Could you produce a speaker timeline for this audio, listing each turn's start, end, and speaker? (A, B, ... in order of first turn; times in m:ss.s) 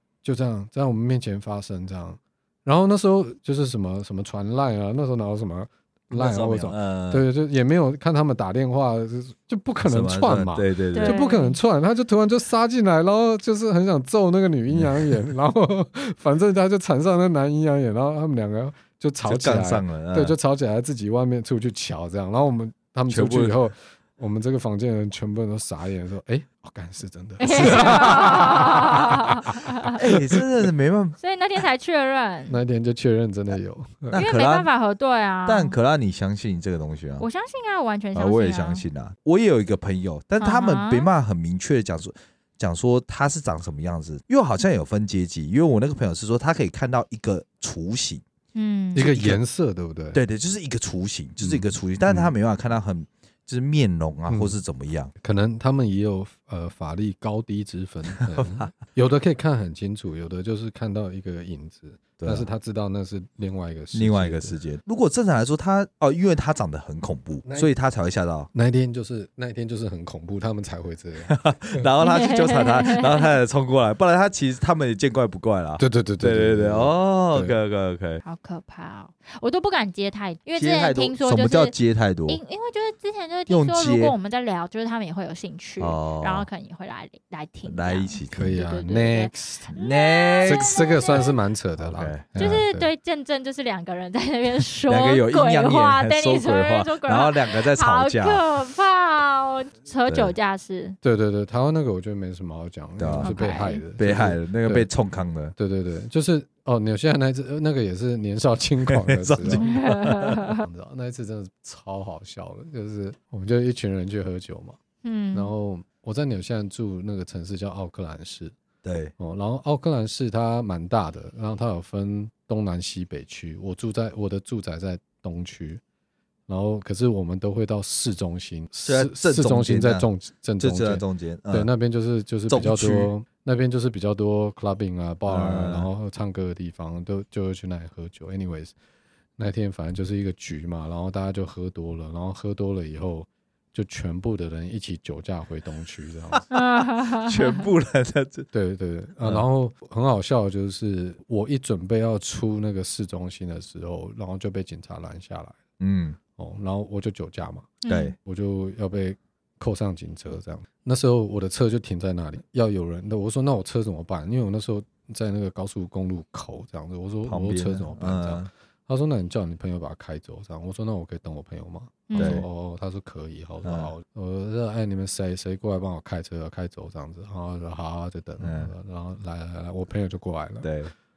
0:00.2-0:29.2 A
0:06.1-0:07.3 B
0:09.8-0:11.2 B
0:11.0-0:11.6 C
0:14.7-0:15.0 B
0:19.2-0:20.4 B
0:23.1-0:23.6 B
0:27.4-0:30.0 C
0:27.6-0:28.4 B
0:29.9-0:31.2 B
0:30.0-0:30.4 A
0:31.2-0:32.6 C
0:32.5-0:34.2 A
0:34.1-0:34.7 B
0:34.1-0:35.8 C
0:35.5-0:37.3 B
0:37.2-0:38.8 C
0:38.1-0:48.2 B
0:40.4-0:41.1 C
0:48.6-0:49.1 C
0:49.0-0:50.2 A
0:49.0-0:49.4 B
0:50.1-0:55.1 B
0:51.4-0:52.3 A
0:54.3-0:54.6 A
0:55.2-1:04.6 A
0:58.3-0:58.7 B
1:02.2-1:02.5 B
1:03.9-1:08.5 B
1:07.4-1:07.7 A
1:08.5-1:11.8 A
1:11.3-1:18.2 B
1:12.0-1:13.3 C
1:15.8-1:17.6 A
1:18.2-1:21.7 C
1:20.6-1:22.4 B
1:22.3-1:31.3 C
1:23.5-1:24.1 B
1:25.8-1:26.5 B
1:27.6-1:28.6 B
1:28.3-1:29.8 A
1:29.7-1:30.9 B
1:30.4-1:32.9 A
1:31.8-1:32.3 B
1:32.4-1:41.0 C
1:34.9-1:38.4 B
1:40.1-1:40.3 B
1:41.0-1:44.9 A
1:43.0-1:43.3 B
1:43.2-1:43.8 C
1:44.0-1:45.5 B
1:45.6-1:49.8 A
1:48.9-1:50.4 B
1:49.5-1:50.6 C
1:50.4-1:54.8 A
1:55.0-1:55.5 C
1:55.3-1:58.5 A
1:58.8-1:59.1 B
1:59.2-2:05.8 A
2:06.5-2:18.7 A
2:08.8-2:10.1 B
2:10.6-2:11.7 B
2:12.5-2:13.1 B
2:15.3-2:15.9 B
2:19.4-2:26.5 A
2:26.5-2:27.6 C
2:27.2-2:28.5 B
2:28.5-2:35.6 A
2:35.8-2:36.2 B
2:36.4-3:00.7 A
2:37.8-2:38.1 C
2:37.9-2:38.2 B
2:47.2-2:48.5 B
2:52.1-2:52.4 C
2:52.2-2:52.5 B
2:53.6-2:53.9 B
2:58.4-2:58.7 B
3:00.6-3:00.9 B